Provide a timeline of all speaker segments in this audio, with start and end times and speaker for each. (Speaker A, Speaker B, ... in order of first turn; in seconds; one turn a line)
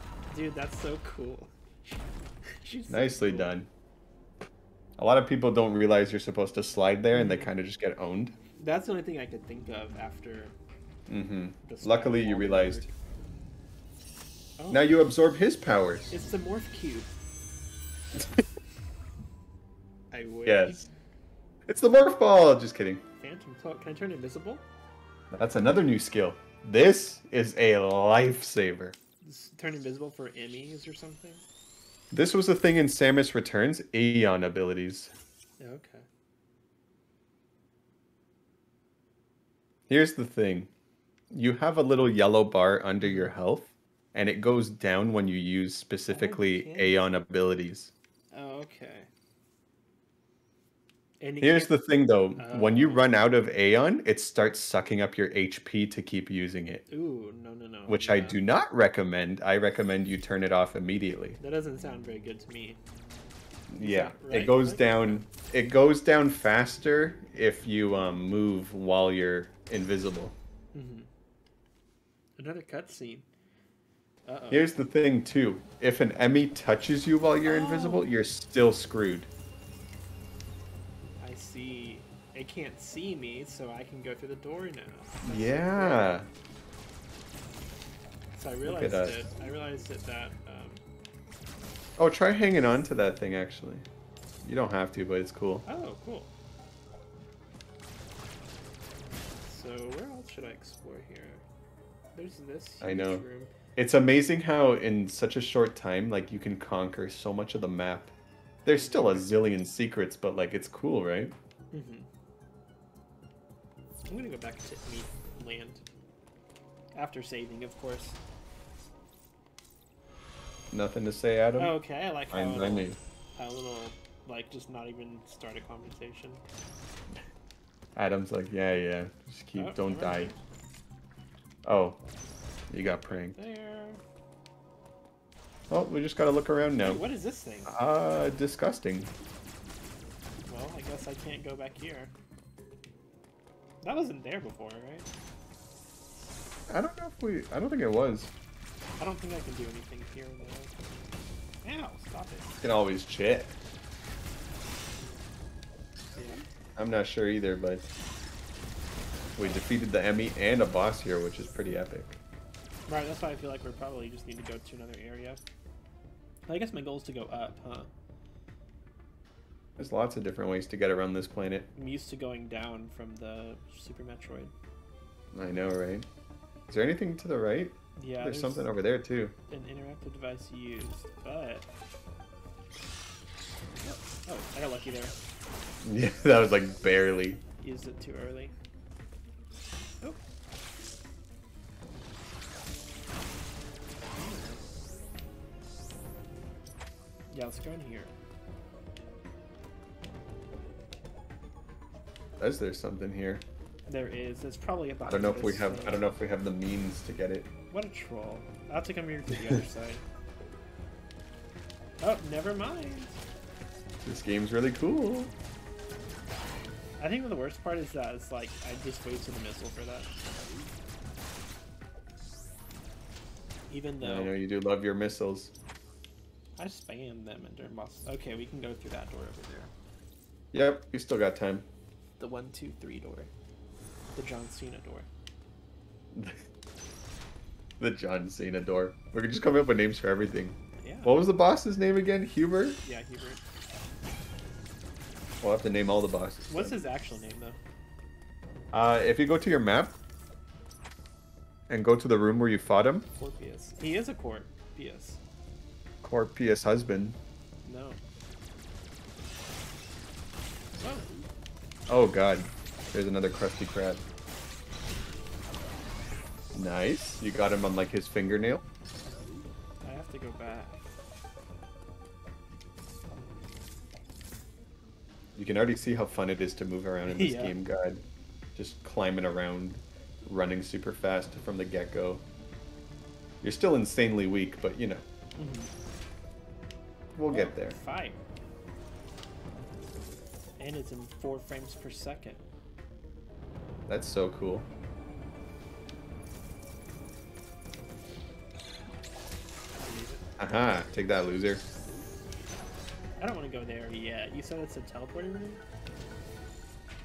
Speaker A: 0.3-3.5
Speaker B: 2.9-3.7
Speaker B: 5.0-8.3
Speaker A: 7.1-7.5
Speaker A: 8.6-10.5
Speaker B: 11.1-12.9
Speaker A: 11.6-12.9
Speaker A: 14.6-14.9
Speaker B: 14.7-16.1
Speaker A: 16.1-17.1
Speaker A: 20.1-20.9
Speaker B: 20.4-20.9
Speaker B: 21.7-23.0
Speaker A: 23.2-24.6
Speaker B: 25.3-28.9
Speaker A: 29.2-31.4
Speaker B: 32.1-35.1
Speaker A: 35.6-36.0
Speaker B: 39.9-40.7
Speaker B: 41.3-47.9
Speaker A: 43.0-43.3
Speaker A: 46.1-47.0
Speaker A: 48.3-49.1
Speaker A: 51.2-53.1
Speaker B: 51.4-56.8
Speaker A: 56.9-58.4
Speaker B: 57.9-61.4
Speaker A: 61.4-62.8
Speaker B: 63.7-70.3
Speaker A: 63.8-65.3
Speaker A: 70.7-71.1
Speaker A: 72.4-73.3
Speaker A: 74.2-74.7
Speaker B: 74.5-79.3
Speaker A: 77.4-78.1
Speaker A: 81.2-86.2
Speaker B: 85.2-86.3
Speaker A: 88.3-90.8
Speaker B: 88.6-89.2
Speaker B: 92.0-93.8
Speaker B: 94.4-95.6
Speaker A: 95.6-96.3
Speaker A: 99.4-101.4
Speaker A: 102.1-103.5
Speaker B: 102.8-103.2
Speaker B: 103.8-108.1
Speaker B: 108.6-111.3
Speaker A: 108.7-109.3
Speaker A: 111.7-112.1
Speaker A: 114.1-115.8
Speaker A: 116.9-118.2
Speaker B: 120.7-121.8
Speaker A: 121.6-126.4
Speaker B: 122.3-123.0
Speaker B: 127.9-130.3
Speaker A: 129.6-130.4
Speaker B: 131.6-132.0
Speaker B: 132.7-133.3
Speaker A: 132.8-134.0
Speaker B: 135.7-137.0
Speaker A: 136.8-137.8
Speaker B: 137.7-139.1
Speaker A: 140.4-142.1
Speaker A: 143.8-145.1
Speaker B: 146.7-148.3
Speaker A: 149.0-150.7
Speaker A: 151.6-152.6
Speaker B: 152.6-153.6
Speaker A: 154.9-155.2
Speaker A: 156.1-156.4
Speaker B: 156.8-157.9
Speaker B: 159.4-162.2
Speaker A: 162.9-165.4
Speaker A: 166.5-167.9
Speaker B: 169.8-171.7
Speaker A: 171.7-174.5
Speaker B: 175.3-176.1
Speaker B: 176.7-179.3
Speaker A: 178.0-178.7
Speaker A: 179.5-181.7
Speaker A: 183.8-185.1
Speaker B: 185.8-187.4
Speaker A: 187.6-188.5
Speaker A: 194.1-194.6
Speaker A: 197.3-198.1
Speaker B: 202.4-203.4
Speaker A: 203.8-206.2
Speaker B: 205.0-207.5
Speaker A: 207.7-210.0
Speaker A: 212.0-213.2
Speaker B: 214.0-215.3
Speaker A: 217.0-220.1
Speaker A: 223.7-224.3
Speaker B: 224.0-225.5
Speaker A: 226.6-229.7
Speaker B: 230.5-231.7
Speaker A: 232.2-233.3
Speaker A: 234.1-235.1
Speaker B: 236.1-236.4
Speaker B: 237.8-242.8
Speaker A: 240.8-241.3
Speaker A: 242.8-243.4
Speaker B: 245.4-246.8
Speaker A: 246.5-247.6
Speaker B: 248.7-249.9
Speaker B: 251.7-253.1
Speaker A: 253.1-255.2
Speaker B: 256.0-257.2
Speaker A: 257.6-258.0
Speaker A: 260.8-261.1
Speaker B: 261.9-264.0
Speaker B: 266.5-268.6
Speaker A: 269.8-270.8
Speaker B: 275.3-278.0
Speaker A: 277.1-277.6
Speaker B: 278.5-282.2
Speaker B: 283.4-285.0
Speaker A: 285.4-285.7
Speaker B: 287.1-287.8
Speaker A: 287.2-288.2
Speaker A: 290.6-292.4
Speaker B: 293.9-294.7
Speaker A: 299.8-300.2
Speaker B: 300.4-301.6
Speaker A: 303.2-305.6